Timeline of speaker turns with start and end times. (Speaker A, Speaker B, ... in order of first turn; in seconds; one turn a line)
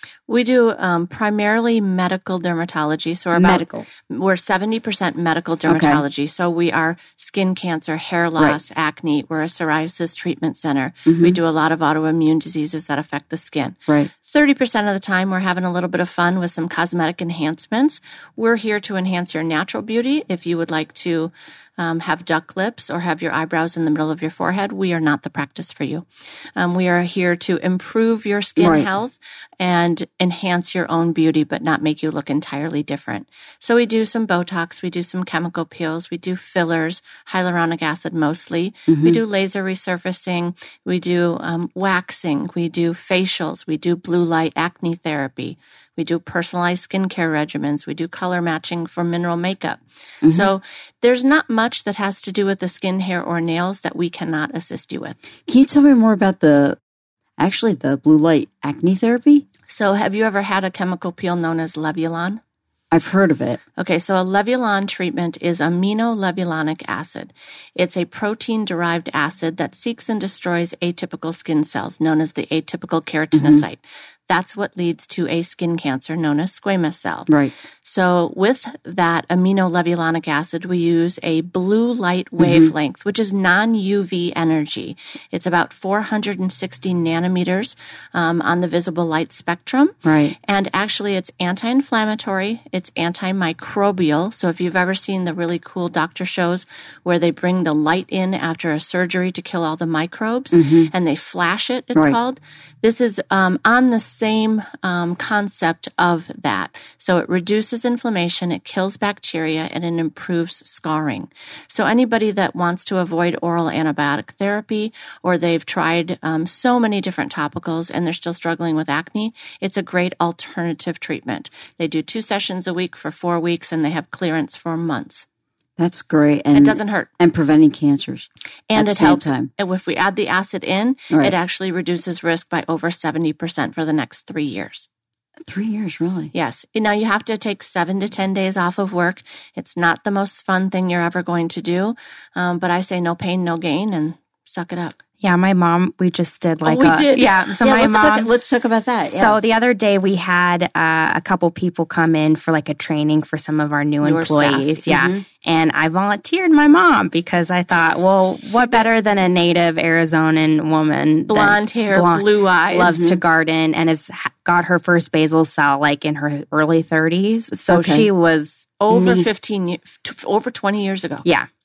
Speaker A: 0.3-55.2
Speaker B: 3.3-3.9
Speaker B: 5.7-6.0
Speaker B: 11.1-11.4
Speaker B: 28.6-28.9
Speaker B: 38.9-39.2
Speaker B: 50.2-50.5
Speaker B: 55.5-56.8
Speaker B: 57.4-59.4
Speaker A: 59.7-62.4
Speaker B: 62.9-63.6
Speaker A: 63.8-77.3
Speaker B: 73.3-73.7
Speaker B: 77.3-77.5
Speaker A: 77.8-125.2
Speaker B: 82.4-82.7
Speaker B: 90.0-90.3
Speaker B: 100.5-100.9
Speaker B: 125.8-129.5
Speaker A: 126.5-127.1
Speaker A: 128.7-134.9
Speaker B: 135.4-136.3
Speaker A: 136.3-145.0
Speaker C: 145.2-148.3
Speaker A: 146.6-148.1
Speaker B: 147.6-149.4
Speaker C: 149.0-168.7
Speaker A: 154.0-154.8
Speaker B: 154.9-155.2
Speaker A: 161.3-162.9
Speaker B: 162.8-163.2
Speaker B: 167.7-168.1
Speaker A: 168.8-171.2
Speaker B: 168.9-169.3